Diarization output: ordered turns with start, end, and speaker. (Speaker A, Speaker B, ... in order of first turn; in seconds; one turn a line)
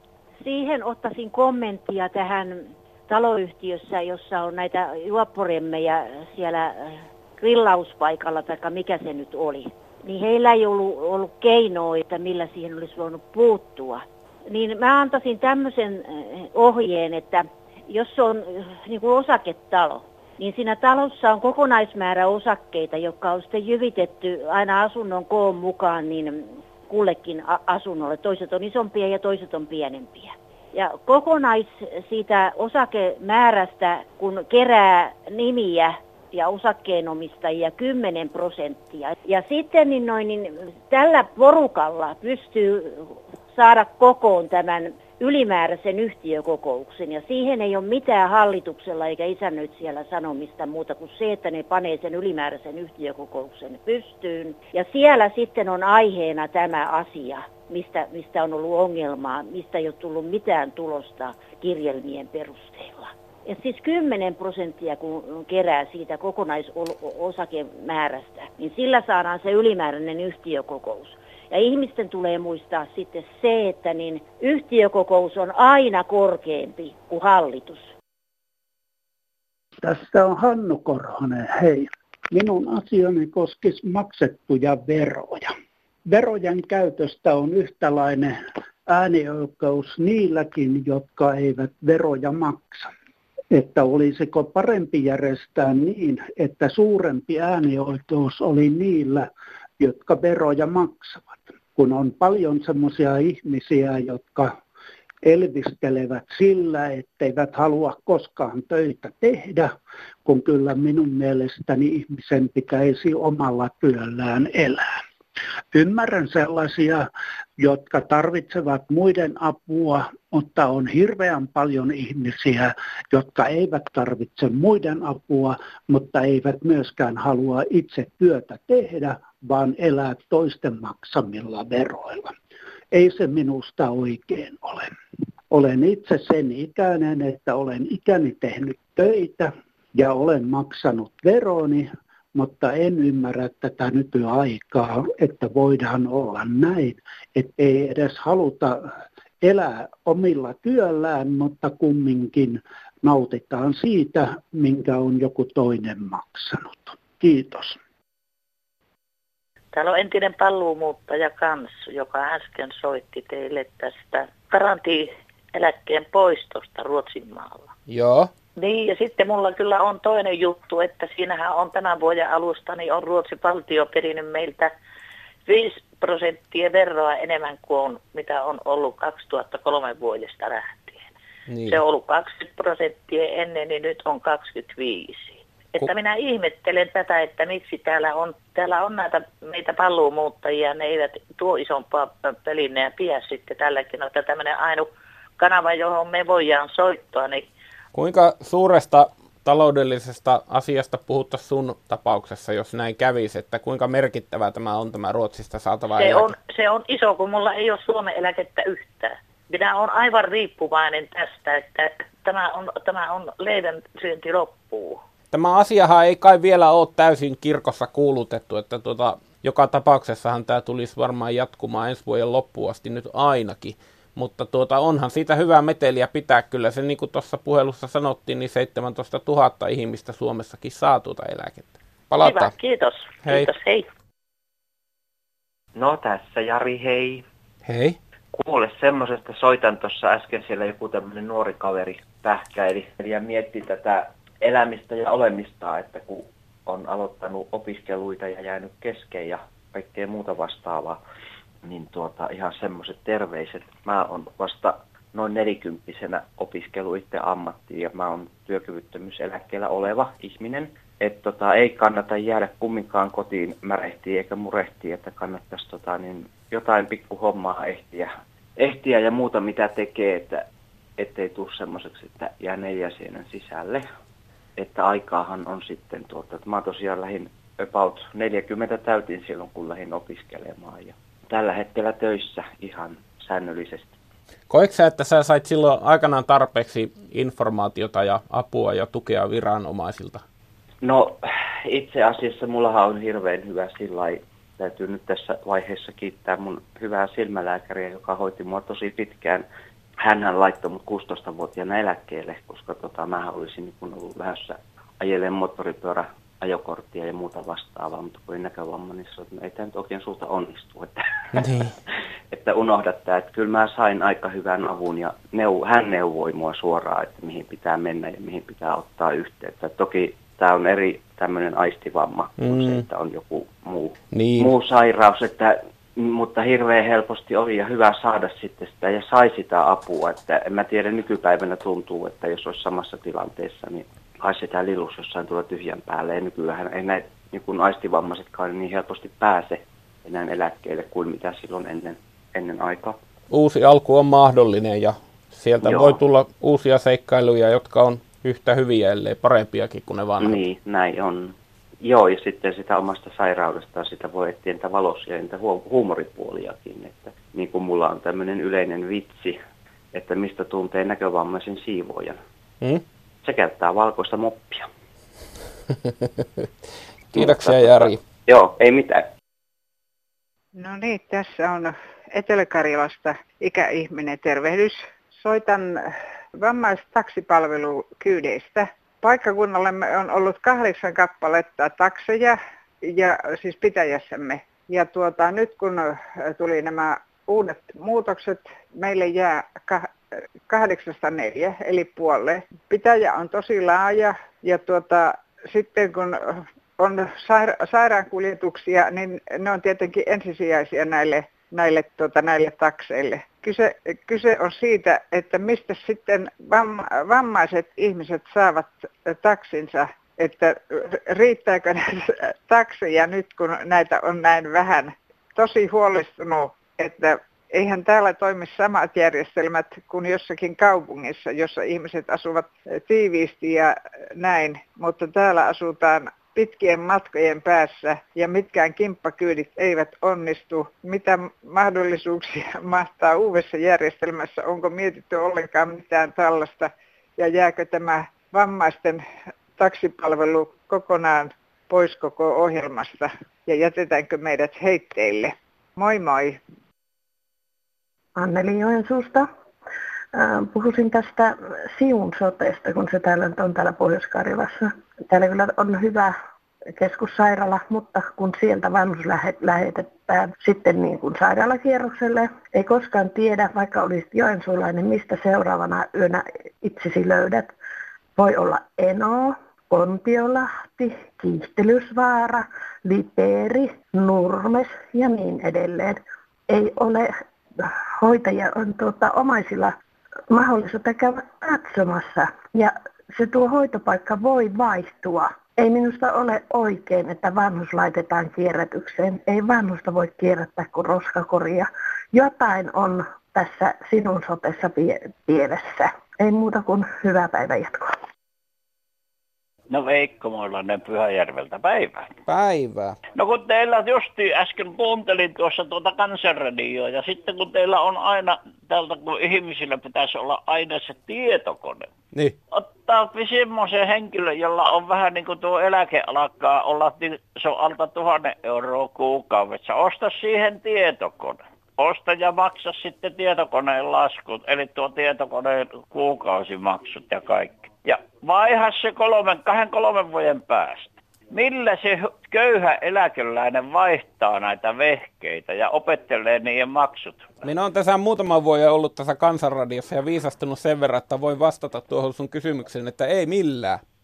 Speaker A: 0.4-77.9
Speaker B: 79.8-85.5
Speaker B: 86.1-92.9
Speaker B: 93.5-104.6
Speaker B: 105.2-109.7
Speaker B: 110.2-115.0
Speaker B: 115.7-132.3
Speaker B: 132.9-134.9
Speaker B: 135.5-148.9
Speaker B: 149.4-157.8
Speaker C: 159.7-167.7
Speaker D: 167.9-168.3
Speaker C: 168.6-174.7
Speaker C: 175.4-181.0
Speaker D: 181.5-181.8
Speaker C: 181.7-194.9
Speaker C: 195.4-197.5
Speaker D: 197.9-206.3
Speaker C: 205.9-215.0
Speaker D: 215.3-232.5
Speaker C: 232.2-233.8
Speaker D: 233.2-233.5
Speaker E: 235.7-237.2
Speaker D: 237.6-238.0
Speaker E: 238.3-251.0
Speaker E: 251.6-270.4
Speaker E: 271.0-273.9
Speaker E: 274.6-283.9
Speaker D: 284.5-290.2
Speaker E: 290.8-291.1
Speaker E: 291.7-299.4
Speaker E: 300.0-311.4
Speaker D: 311.3-311.7
Speaker E: 312.3-343.0
Speaker D: 322.4-322.8
Speaker D: 324.1-324.5
Speaker D: 343.3-350.4
Speaker E: 345.6-346.0
Speaker E: 350.2-359.4
Speaker E: 359.9-362.2
Speaker E: 363.2-364.7
Speaker D: 365.8-366.5
Speaker D: 367.1-368.0
Speaker E: 367.1-369.1
Speaker F: 370.6-375.7
Speaker F: 376.4-389.9
Speaker F: 390.5-439.0
Speaker F: 439.6-446.4
Speaker G: 448.1-449.2
Speaker G: 450.1-456.1
Speaker G: 456.8-467.5
Speaker G: 468.1-479.7
Speaker G: 480.3-497.9
Speaker H: 499.7-502.1
Speaker D: 502.3-503.0
Speaker H: 503.1-511.9
Speaker D: 512.1-512.4
Speaker H: 512.5-537.4
Speaker D: 537.4-543.8